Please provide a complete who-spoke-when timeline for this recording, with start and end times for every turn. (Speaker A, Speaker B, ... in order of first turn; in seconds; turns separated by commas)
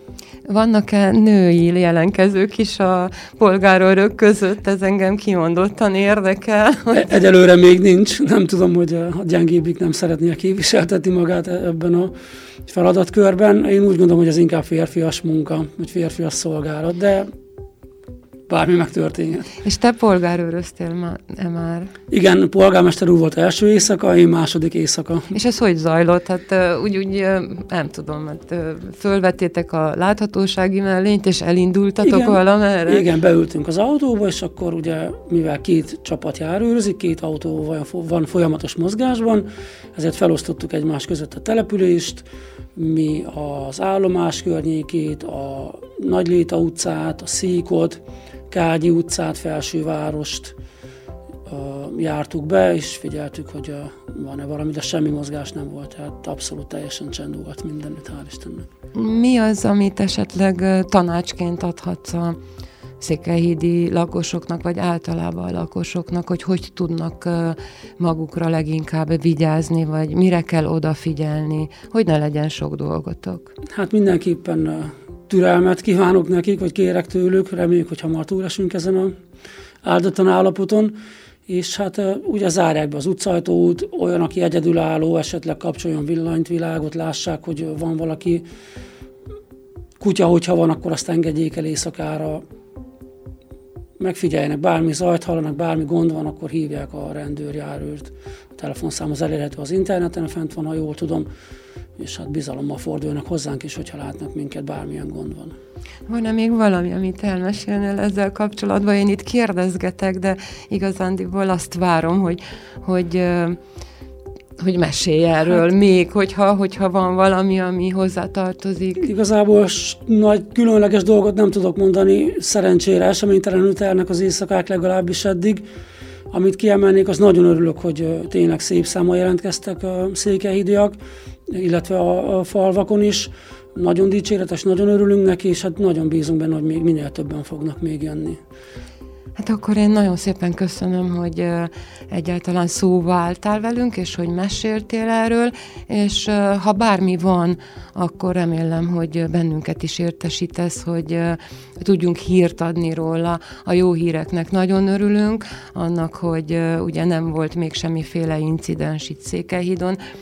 Speaker A: 0.5-7.1, Speaker B: 6.9-12.1, Speaker B: 12.7-17.3, Speaker B: 18.5-19.5, Speaker A: 19.6-21.9, Speaker B: 22.1-25.3, Speaker A: 25.3-33.0, Speaker B: 32.0-50.5, Speaker B: 51.5-58.7, Speaker A: 58.9-62.4, Speaker A: 63.0-73.5, Speaker B: 73.7-79.1, Speaker B: 79.8-88.5, Speaker B: 90.0-92.4, Speaker B: 94.0-101.3, Speaker B: 102.0-105.5, Speaker A: 106.1-113.6, Speaker A: 114.6-119.1, Speaker B: 119.0-125.6, Speaker B: 126.3-131.0, Speaker B: 131.5-138.4, Speaker A: 139.3-160.0